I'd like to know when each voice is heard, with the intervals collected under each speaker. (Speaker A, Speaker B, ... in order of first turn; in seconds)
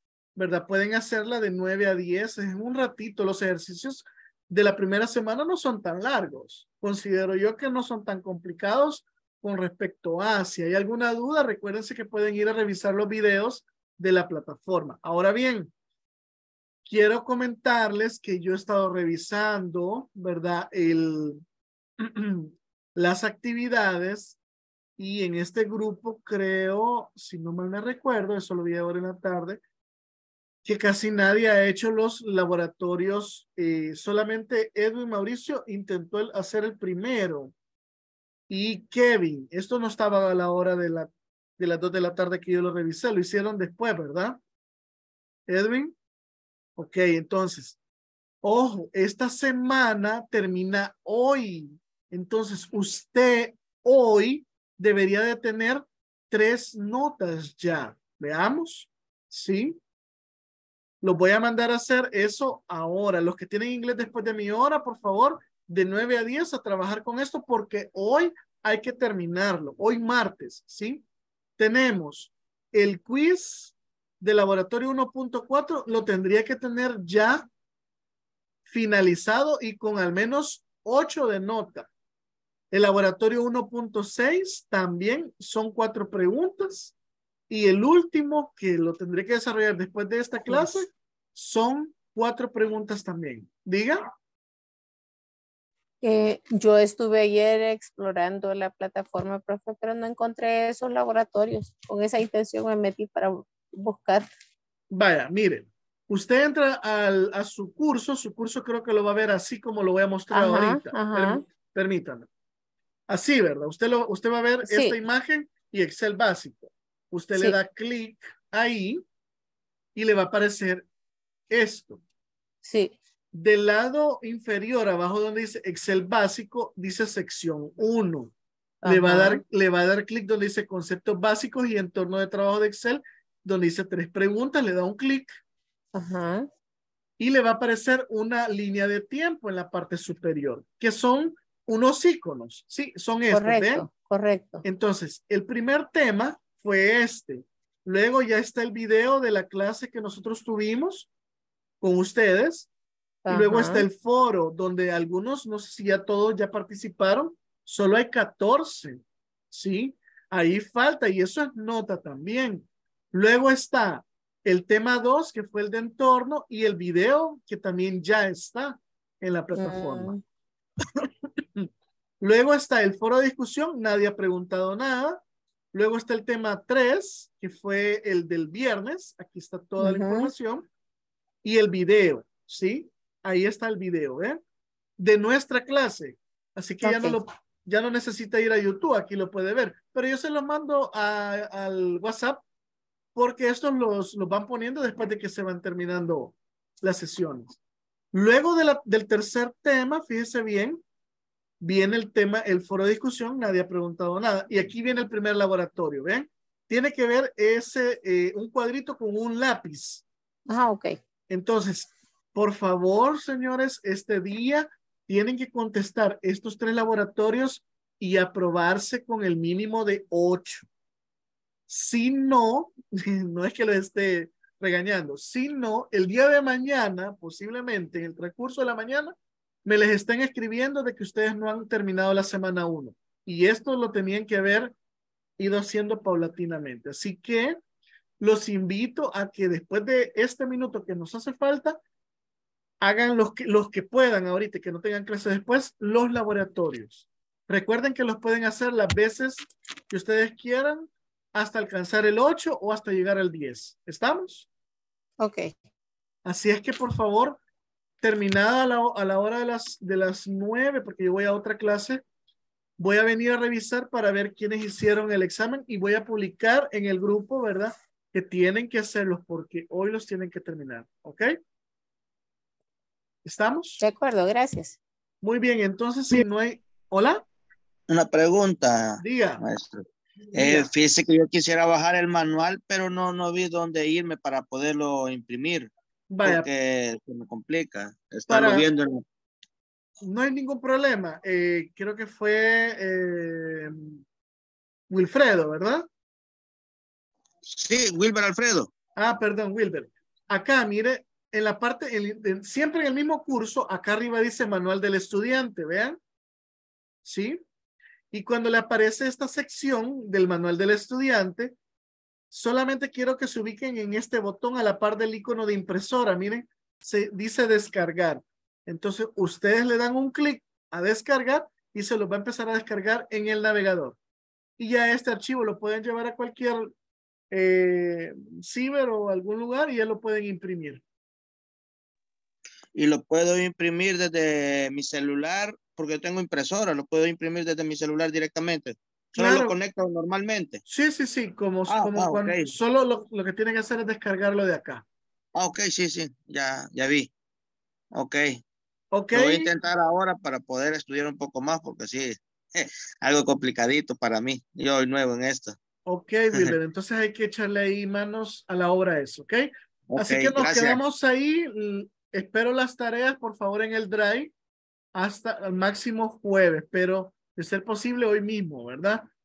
Speaker A: 0.3-15.7, 16.9-21.4, 22.0-24.4, 25.0-29.6, 30.6-37.5, 38.5-44.4, 45.5-46.0, 46.8-47.8, 48.4-59.8, 61.0-71.0, 71.6-77.5, 78.7-81.9, 82.7-86.9, 87.5-94.0, 104.9-112.3, 113.1-119.0, 120.0-120.8, 121.5-122.0, 123.3-128.3, 128.8-135.3, 137.2-143.9, 144.6-151.1, 151.8-152.7, 153.3-170.1, 170.9-171.7, 172.2-175.2, 175.7-180.7, 181.4-184.4, 185.0-192.4, 193.1-197.6, 198.1-200.8, 201.6-210.0, 211.3-220.7, 221.7-234.7, 235.4-237.6, 238.2-241.8, 242.8-254.5, 256.2-257.4, 258.0-262.0, 262.8-271.4, 273.2-273.8, 275.2-277.2, 279.0-279.4, 280.4-280.6, 286.1-286.5, 288.3-288.7, 290.0-294.0, 294.9-295.9, 298.9-306.0, 307.0-307.4, 308.1-311.5, 312.3-324.0, 324.6-326.7, 327.3-330.8, 339.1-339.5, 340.7-344.8, 348.9-349.5, 355.9-364.3, 364.9-369.1
Speaker B: 90.5-90.8, 96.0-104.3, 110.3-111.4, 114.6-115.0, 122.6-123.0, 128.8-129.4, 135.9-136.5, 143.3-144.6, 153.2-153.9, 169.5-170.2, 179.8-180.3, 186.8-187.2, 210.5-211.0, 255.2-255.5, 273.8-274.8
Speaker C: 277.9-285.7, 286.2-289.0, 297.5-298.7, 332.7-340.6, 341.7-342.5, 345.3-347.1, 347.9-348.4, 349.1-355.6, 359.9-360.8